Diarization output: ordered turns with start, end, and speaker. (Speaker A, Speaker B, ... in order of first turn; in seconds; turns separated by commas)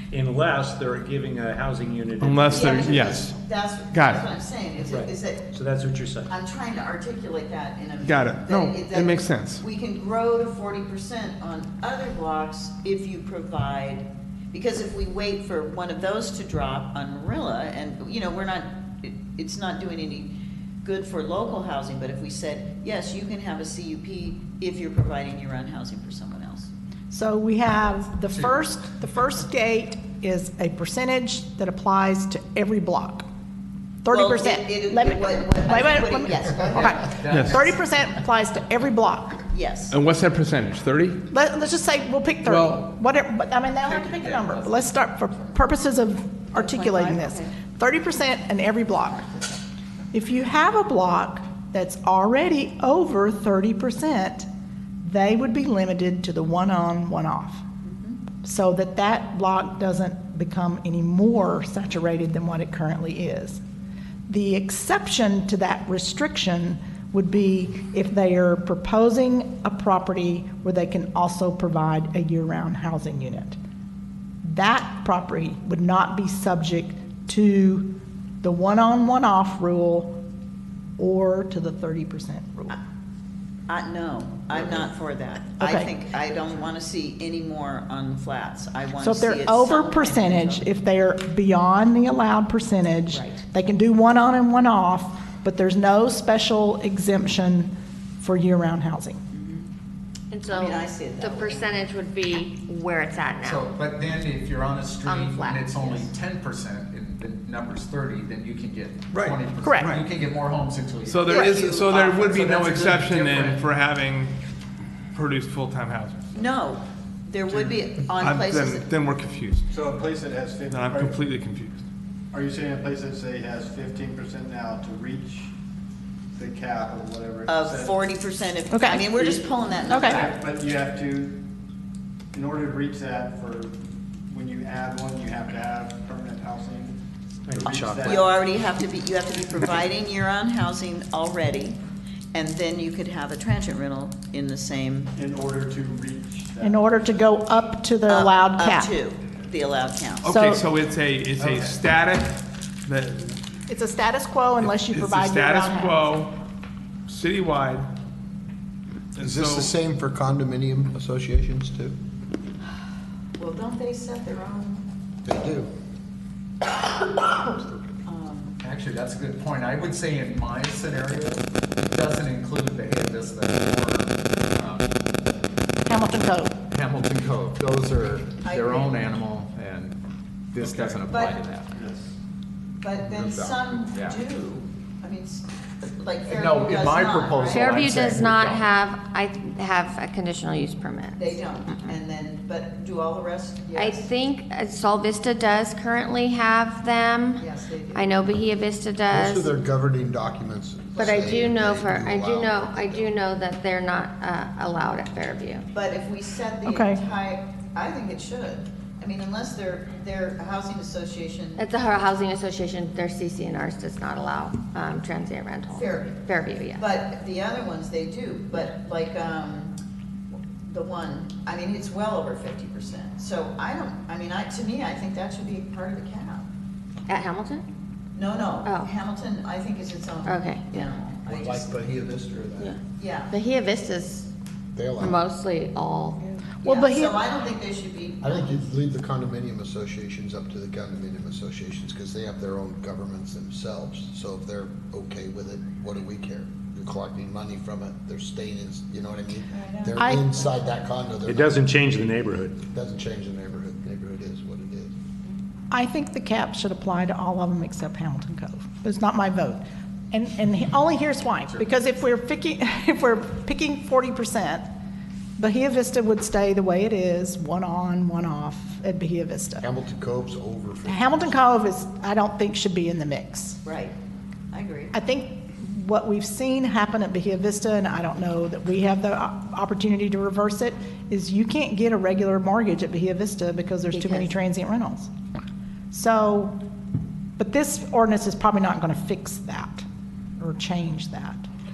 Speaker A: 0.1-2.4, Speaker B: 2.2-3.4, Speaker C: 2.5-5.5, Speaker B: 3.9-4.3, Speaker A: 4.9-6.3, Speaker C: 6.3-20.3, Speaker B: 8.0-9.6, Speaker C: 20.8-26.7, Speaker D: 27.1-33.3, Speaker E: 28.3-28.7, Speaker D: 34.0-39.4, Speaker C: 34.1-37.0, Speaker E: 36.5-38.1, Speaker B: 37.3-37.6, Speaker C: 39.5-40.0, Speaker B: 39.9-41.2, Speaker D: 41.3-49.6, Speaker B: 42.4-42.9, Speaker E: 43.9-45.6, Speaker C: 46.5-47.5, Speaker D: 50.1-54.5, Speaker D: 55.0-57.6, Speaker C: 57.8-58.2, Speaker D: 58.4-63.6, Speaker D: 64.3-73.6, Speaker D: 74.4-80.2, Speaker D: 81.0-82.8, Speaker C: 83.7-90.7, Speaker D: 85.6-85.9, Speaker D: 89.0-99.2, Speaker C: 93.1-93.4, Speaker C: 99.3-99.7, Speaker F: 100.3-103.6, Speaker C: 100.5-101.9, Speaker E: 103.4-113.7, Speaker F: 105.0-105.8, Speaker D: 109.6-110.0, Speaker B: 111.0-114.4, Speaker C: 111.3-112.4, Speaker B: 115.1-116.3, Speaker C: 116.3-118.9, Speaker B: 117.5-119.7, Speaker G: 119.7-121.2, Speaker B: 120.7-121.8, Speaker G: 122.3-125.5, Speaker G: 126.4-128.1, Speaker C: 127.5-130.4, Speaker D: 128.7-129.4, Speaker G: 129.5-131.4, Speaker D: 129.9-130.2, Speaker G: 132.3-133.8, Speaker G: 134.3-137.0, Speaker G: 137.5-138.4, Speaker C: 138.0-141.8, Speaker C: 142.3-145.1, Speaker G: 145.2-146.9, Speaker D: 146.6-148.9, Speaker C: 148.1-150.3, Speaker B: 150.2-153.4, Speaker D: 150.2-150.6, Speaker E: 151.4-151.8, Speaker D: 153.7-156.1, Speaker B: 154.6-156.3, Speaker B: 157.1-157.9, Speaker B: 159.2-159.7, Speaker H: 159.2-162.0, Speaker C: 163.4-164.8, Speaker H: 165.2-165.7, Speaker H: 166.7-167.9, Speaker C: 168.1-168.6, Speaker E: 168.6-175.0, Speaker D: 175.9-176.6, Speaker E: 176.7-180.0, Speaker C: 178.4-179.1, Speaker E: 180.5-181.8, Speaker G: 180.6-181.0, Speaker C: 181.1-181.4, Speaker G: 181.7-182.1, Speaker C: 182.8-187.8, Speaker H: 183.1-183.6, Speaker E: 183.8-184.2, Speaker E: 186.3-188.8, Speaker F: 187.5-192.0, Speaker C: 191.2-194.1, Speaker F: 193.8-197.4, Speaker C: 197.4-198.2, Speaker F: 197.9-199.5, Speaker H: 199.1-203.1, Speaker C: 201.0-201.4, Speaker F: 201.0-205.7, Speaker C: 205.7-211.7, Speaker D: 206.7-207.0, Speaker F: 211.6-216.8, Speaker C: 215.7-219.8, Speaker C: 220.7-226.5, Speaker F: 227.1-227.7, Speaker C: 228.1-232.1, Speaker F: 228.7-228.9, Speaker F: 230.3-231.0, Speaker H: 231.2-232.8, Speaker C: 233.0-233.3, Speaker F: 233.3-234.3, Speaker H: 234.7-235.2, Speaker F: 235.0-236.2, Speaker D: 236.6-237.2, Speaker C: 236.6-238.6, Speaker H: 238.2-251.8, Speaker C: 249.5-250.7, Speaker D: 250.0-250.2, Speaker H: 252.7-254.9, Speaker D: 255.7-264.6, Speaker D: 265.4-269.7, Speaker H: 269.6-271.4, Speaker D: 270.9-273.6, Speaker C: 273.6-274.0, Speaker C: 274.5-274.9, Speaker D: 274.9-285.1, Speaker F: 283.9-284.3, Speaker D: 285.9-286.6, Speaker D: 287.4-289.9, Speaker D: 290.4-291.5